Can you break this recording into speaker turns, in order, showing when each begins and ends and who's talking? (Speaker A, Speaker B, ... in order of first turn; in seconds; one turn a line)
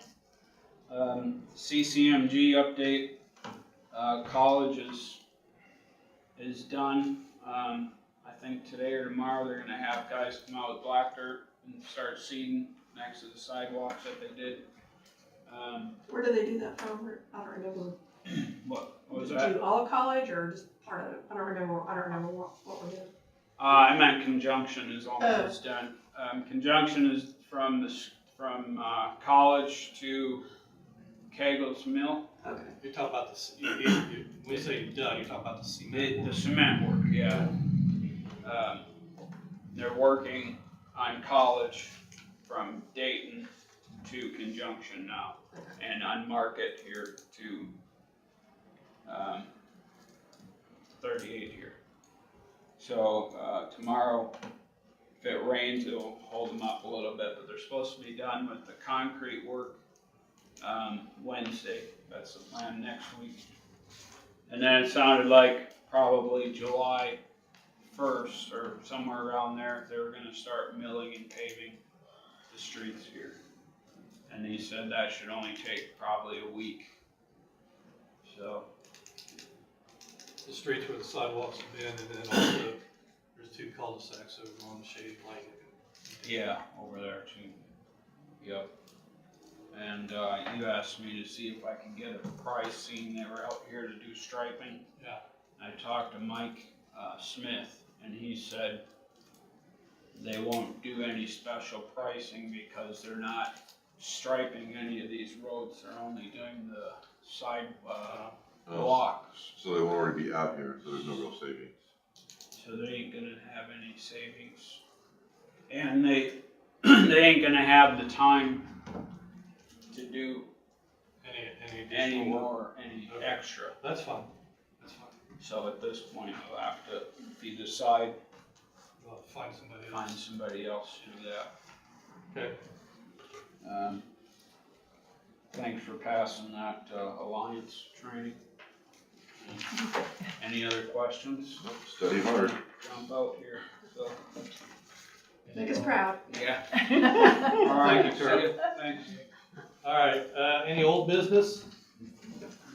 Speaker A: 0.9-3.1
Speaker A: 3.9-5.2
Speaker A: 6.3-14.6
Speaker A: 15.4-15.9
Speaker B: 16.1-17.9
Speaker A: 18.5-19.5
Speaker B: 19.1-23.1
Speaker A: 23.6-30.4
Speaker B: 25.2-25.5
Speaker A: 31.3-32.2
Speaker B: 32.4-32.7
Speaker C: 32.8-36.4
Speaker A: 35.9-37.8
Speaker A: 38.4-38.8
Speaker A: 39.7-43.5
Speaker A: 44.0-47.7
Speaker A: 49.0-49.5
Speaker A: 51.0-51.8
Speaker A: 52.8-54.3
Speaker A: 55.2-59.8
Speaker A: 60.6-63.4
Speaker A: 64.5-67.2
Speaker A: 67.9-71.8
Speaker A: 72.5-73.4
Speaker A: 74.3-76.9
Speaker A: 78.2-78.7
Speaker C: 80.4-82.8
Speaker C: 83.3-86.4
Speaker A: 86.2-87.5
Speaker A: 88.4-88.7
Speaker A: 89.7-94.8
Speaker A: 95.6-98.8
Speaker A: 100.1-109.5
Speaker C: 108.1-108.3
Speaker D: 108.7-111.7
Speaker A: 112.5-114.8
Speaker A: 115.7-118.7
Speaker A: 119.9-120.5
Speaker C: 121.2-122.5
Speaker A: 121.9-123.7
Speaker C: 123.1-125.2
Speaker A: 125.4-128.2
Speaker C: 129.0-130.1
Speaker A: 129.9-131.5
Speaker C: 132.3-132.6
Speaker A: 133.6-134.0
Speaker A: 135.5-138.4
Speaker A: 139.4-144.2
Speaker D: 141.6-142.6
Speaker B: 145.5-146.2
Speaker A: 146.3-149.2
Speaker C: 147.6-148.6
Speaker C: 149.8-151.7